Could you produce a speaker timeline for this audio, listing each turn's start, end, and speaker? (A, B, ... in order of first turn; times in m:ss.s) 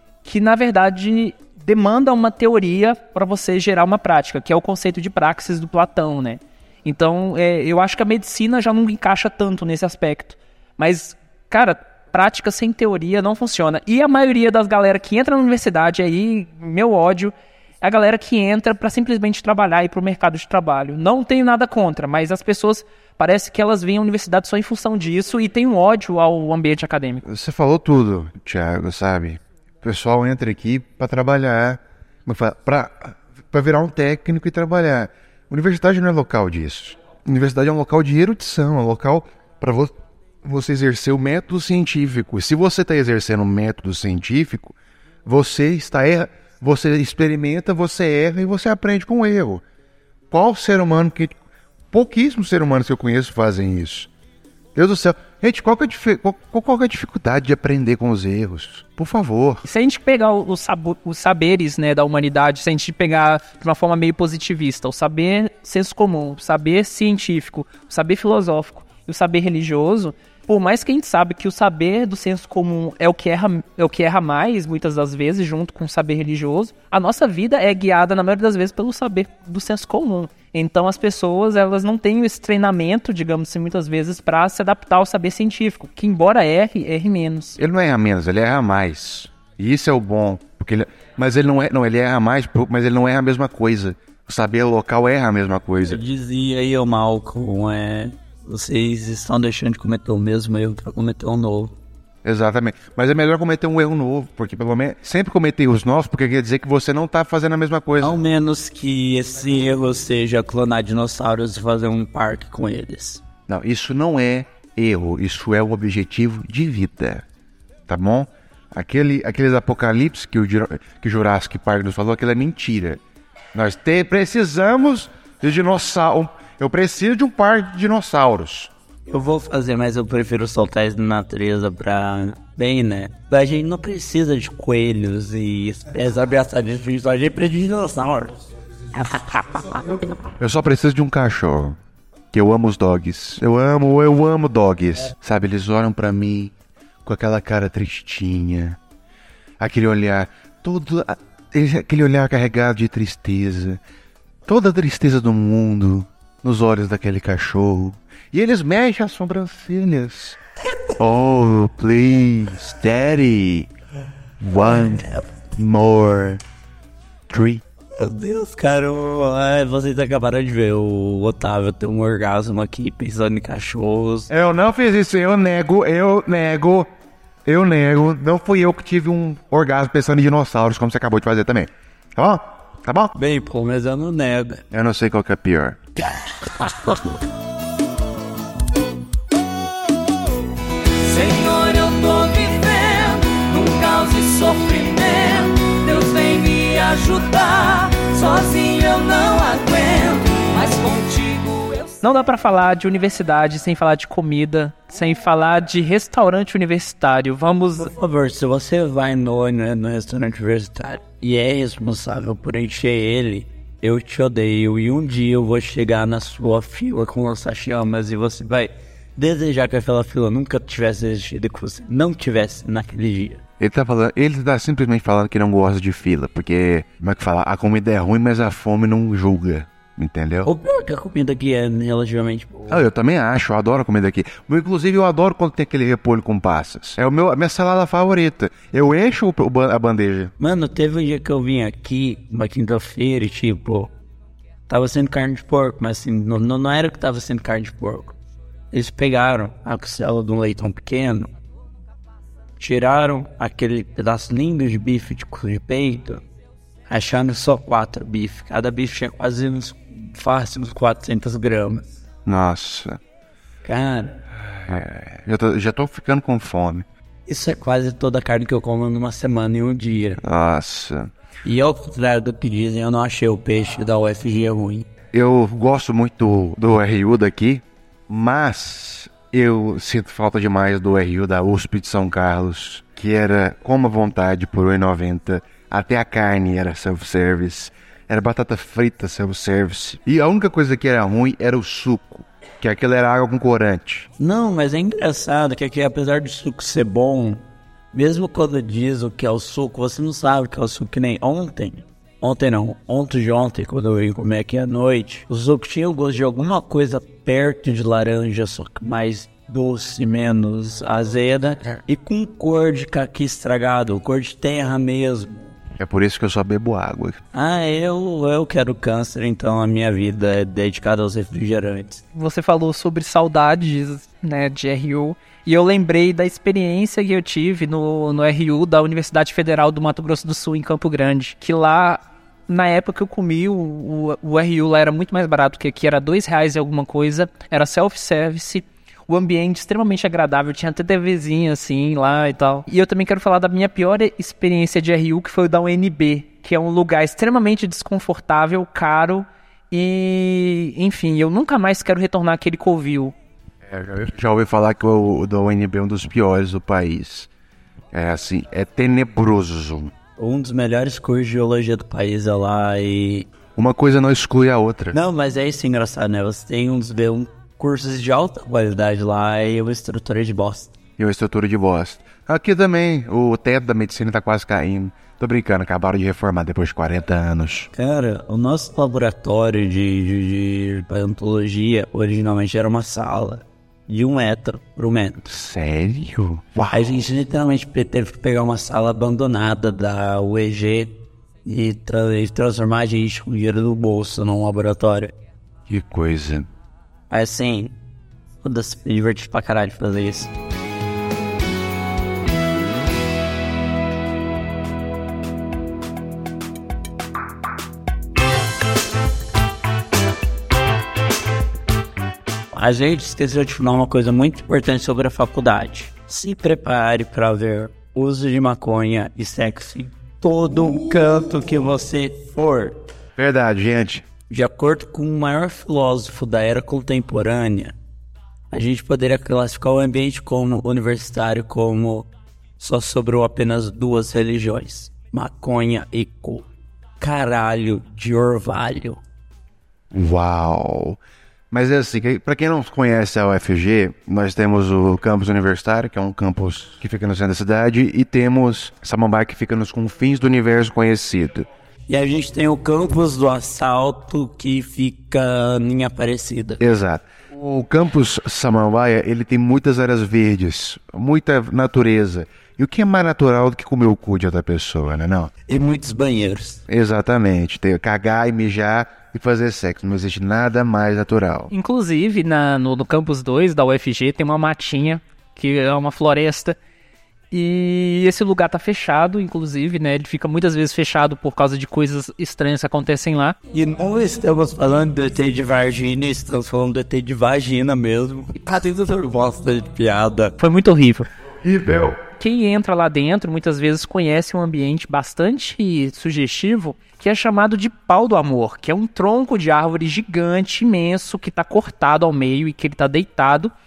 0:00.2-0:27.2 A
0:27.2-0:49.6 B
0:50.3-0:51.4 B
0:51.9-0:54.1 B
0:54.8-0:59.6 B
0:59.6-1:27.6 A
1:27.6-1:36.0 B
1:35.9-1:41.8 C
1:42.2-1:48.2 B
1:48.0-1:53.2 C
1:53.5-1:57.2 B
1:57.9-2:03.0 B
2:03.5-2:08.7 B
2:09.1-2:18.3 C
2:18.9-2:20.1 C
2:20.4-2:21.8 B
2:22.3-2:26.5 B
2:27.0-2:28.8 B
2:29.6-2:33.8 B
2:34.4-2:40.4 B
2:41.0-2:43.7 B
2:44.4-2:46.4 B
2:47.3-2:47.6 B
2:48.0-2:54.3 C
2:54.3-2:56.9 B
2:57.4-3:03.1 B
3:03.1-3:04.6 C
3:04.7-3:05.8 B
3:06.0-3:07.0 C
3:11.0-3:21.9 D
3:22.0-3:27.9 A
3:27.8-3:43.4 C
3:43.6-3:50.5 B
3:50.4-3:52.8 C
3:52.7-4:00.3 B
4:00.4-4:03.9 C
4:04.7-4:08.2 C
4:08.7-4:11.3 C
4:12.6-4:16.2 C
4:16.9-4:21.9 C
4:22.2-4:23.0 B
4:23.6-4:24.2 C
4:24.5-4:26.9 B
4:27.3-4:30.2 C
4:30.2-4:31.1 B
4:31.4-4:34.9 C
4:35.1-4:54.1 B
4:54.2-5:15.5 C
5:15.8-5:17.2 B
5:17.3-5:22.0 C
5:22.1-5:53.1 A
5:53.6-5:57.3 B
5:57.9-5:59.9 B
6:00.2-6:03.3 C
6:03.6-6:05.0 B
6:04.9-6:10.7 C
6:11.0-6:17.7 B
6:17.7-6:25.3 C
6:25.3-6:26.8 B
6:26.6-6:35.1 C
6:35.7-6:36.5 B
6:37.1-6:37.7 C
6:38.4-6:40.3 C
6:52.5-7:02.8 C
7:03.2-7:04.1 B
7:04.3-7:07.7 C
7:08.5-7:16.5 C
7:17.0-7:19.0 C
7:19.9-7:21.0 B
7:21.5-7:31.5 B
7:31.9-7:36.6 C
7:36.6-7:45.3 B
7:45.5-7:46.6 C
7:46.7-7:51.5 B
7:51.5-7:56.6 A
7:57.3-8:03.4 A
8:03.5-8:10.4 C
8:10.4-8:11.1 A
8:11.4-8:12.0 B
8:12.2-8:23.5 A